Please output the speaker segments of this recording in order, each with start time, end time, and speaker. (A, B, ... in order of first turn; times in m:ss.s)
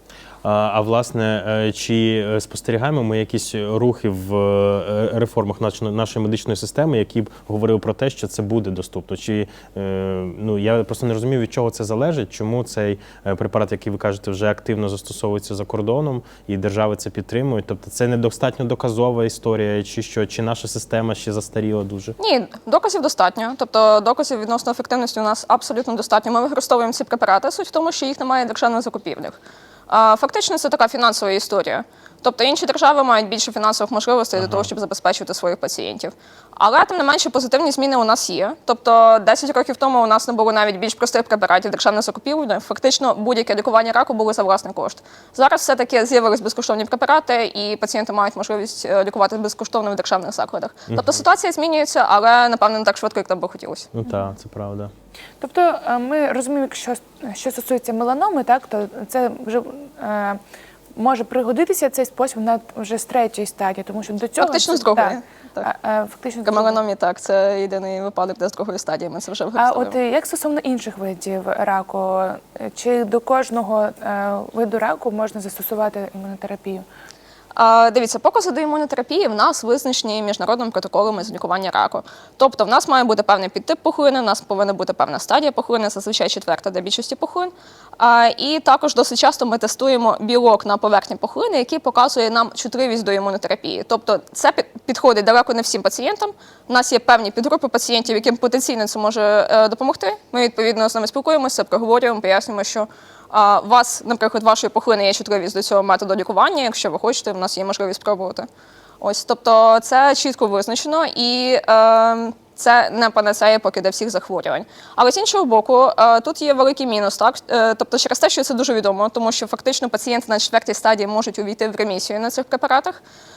0:00.4-0:22.2 A
0:22.2-0:29.4 B
0:29.9-0:53.9 B
0:34.4-0:34.7 A
0:50.9-0:51.2 A
0:53.9-0:54.9 A
0:55.4-1:00.4 C
1:01.0-1:06.8 C
1:04.4-1:05.7 B
1:06.4-1:10.0 B
1:09.6-1:16.8 C
1:17.6-1:48.5 B
1:49.0-2:03.0 B